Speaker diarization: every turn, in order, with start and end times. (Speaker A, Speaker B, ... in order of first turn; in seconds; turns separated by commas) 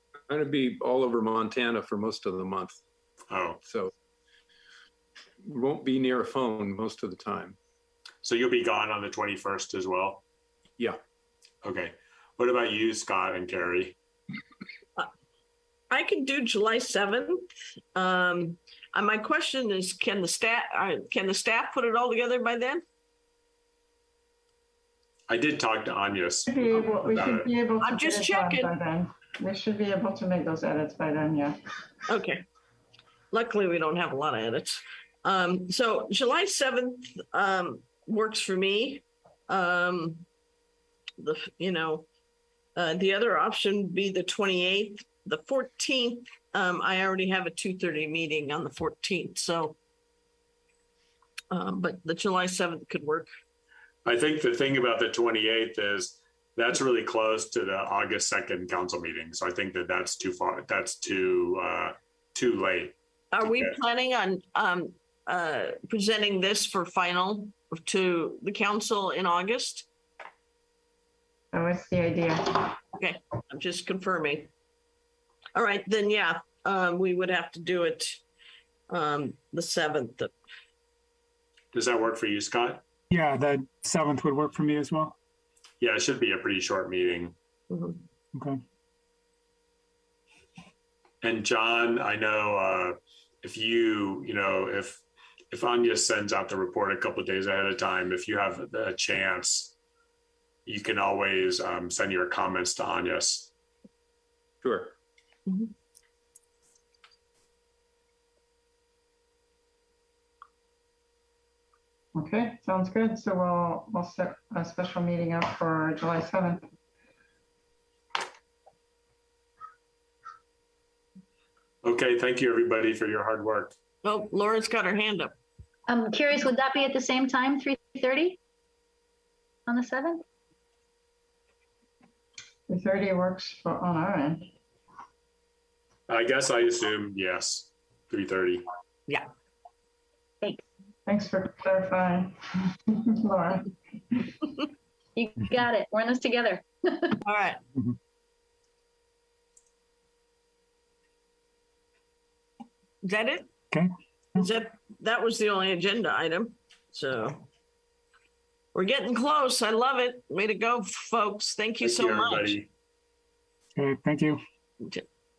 Speaker A: 0.3-2.8, Speaker B: 3.3-3.6, Speaker A: 3.6-3.9, Speaker A: 5.4-7.6, Speaker B: 8.2-10.2, Speaker B: 11.6-13.9, Speaker C: 15.9-22.8, Speaker B: 25.3-27.5, Speaker D: 26.5-31.5, Speaker C: 27.8-28.7, Speaker C: 32.1-32.4, Speaker C: 33.3-40.2, Speaker C: 41.2-42.0, Speaker C: 42.7-49.8, Speaker C: 51.5-53.3, Speaker B: 54.0-63.7, Speaker C: 63.3-69.9, Speaker D: 71.5-72.8, Speaker C: 73.0-74.5, Speaker C: 75.5-78.2, Speaker C: 78.9-80.3, Speaker B: 81.7-82.8, Speaker E: 83.1-85.1, Speaker B: 85.8-87.3, Speaker C: 87.7-88.0, Speaker E: 88.3-88.6, Speaker B: 91.2-99.8, Speaker B: 100.7-103.5, Speaker A: 104.6-104.9, Speaker D: 112.1-116.6, Speaker B: 121.8-123.7, Speaker C: 124.0-125.3, Speaker F: 125.9-128.4, Speaker F: 129.7-130.2, Speaker D: 132.7-134.5, Speaker B: 136.1-138.6, Speaker D: 141.1-144.2, Speaker F: 145.2-147.2, Speaker C: 147.2-147.6, Speaker C: 153.0-153.5, Speaker E: 153.7-154.4, Speaker C: 154.3-157.4, Speaker C: 158.7-162.6, Speaker B: 161.8-162.7, Speaker E: 163.8-164.4